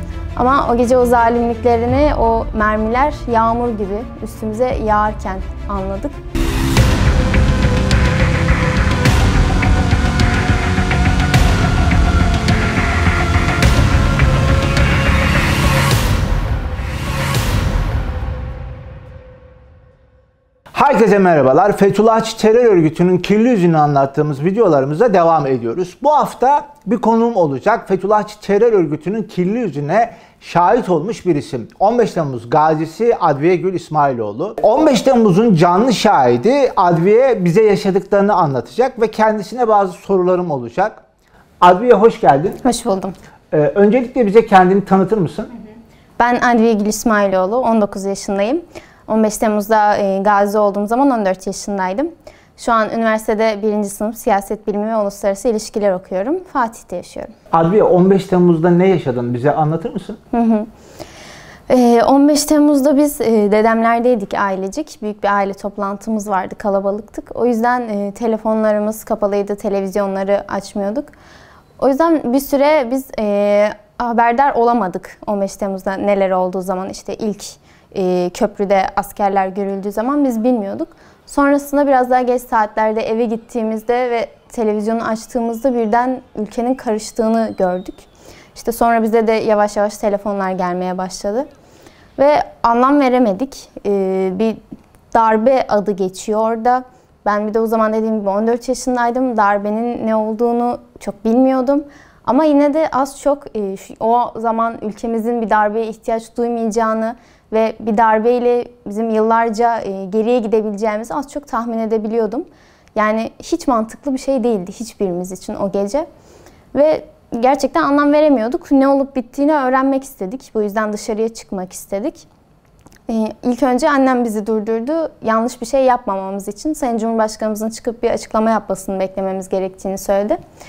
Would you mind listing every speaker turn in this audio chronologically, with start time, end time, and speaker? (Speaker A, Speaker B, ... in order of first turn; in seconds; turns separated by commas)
Speaker A: 0.4-6.2, Speaker B: 20.7-41.0, Speaker B: 41.6-42.6, Speaker A: 42.6-43.1, Speaker B: 43.5-45.5, Speaker A: 46.2-57.3, Speaker B: 57.5-60.2, Speaker A: 60.3-60.7, Speaker A: 61.7-71.1, Speaker A: 71.8-91.5, Speaker A: 92.2-94.6, Speaker A: 95.1-116.1, Speaker A: 116.7-122.3, Speaker A: 123.1-130.4